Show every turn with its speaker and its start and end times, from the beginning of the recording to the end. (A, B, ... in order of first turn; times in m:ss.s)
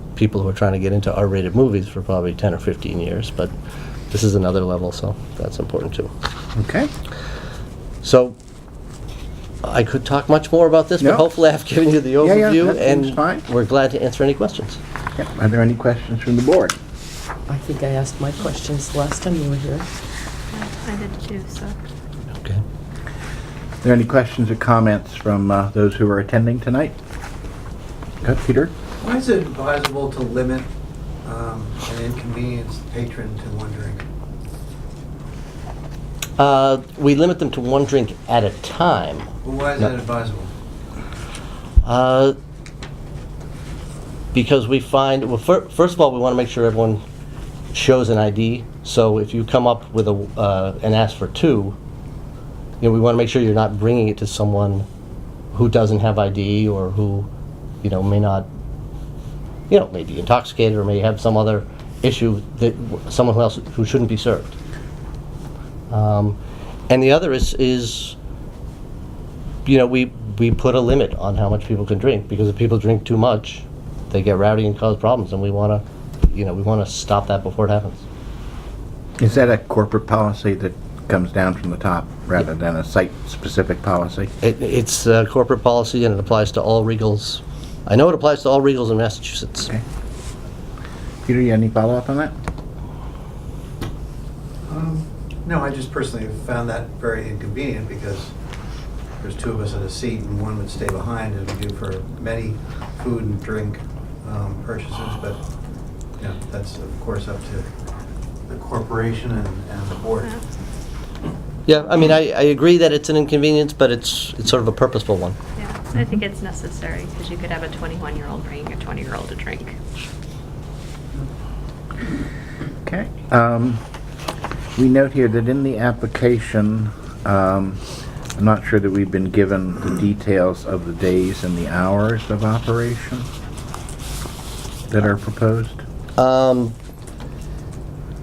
0:00.2-0:03.5 A
0:04.1-0:06.1 A
0:06.6-0:06.9 B
0:08.0-0:08.4 A
0:09.6-0:14.8 A
0:11.0-0:11.3 B
0:12.2-0:13.4 B
0:15.2-0:16.8 B
0:17.5-0:19.9 C
0:20.5-0:21.8 D
0:23.8-0:27.0 B
0:28.2-0:28.7 B
0:29.0-0:30.7 E
0:31.2-0:34.0 E
0:36.4-0:39.3 A
0:39.5-0:40.5 E
0:41.8-0:42.4 A
0:44.3-0:47.0 A
0:47.7-0:51.8 A
0:52.8-0:54.9 A
0:55.5-0:57.3 A
0:57.8-0:58.5 A
0:59.7-1:04.6 A
1:05.9-1:08.2 A
1:09.7-1:18.0 A
1:19.2-1:24.3 B
1:24.4-1:29.7 A
1:31.2-1:32.3 B
1:34.7-1:38.3 E
1:39.2-1:45.4 E
1:46.2-1:47.7 E
1:48.5-1:50.3 E
1:51.7-1:55.4 A
1:55.6-1:59.8 D
2:02.8-2:03.8 B
2:04.8-2:07.8 B
2:08.4-2:13.3 B
2:14.9-2:15.8 B
2:16.2-2:16.8 A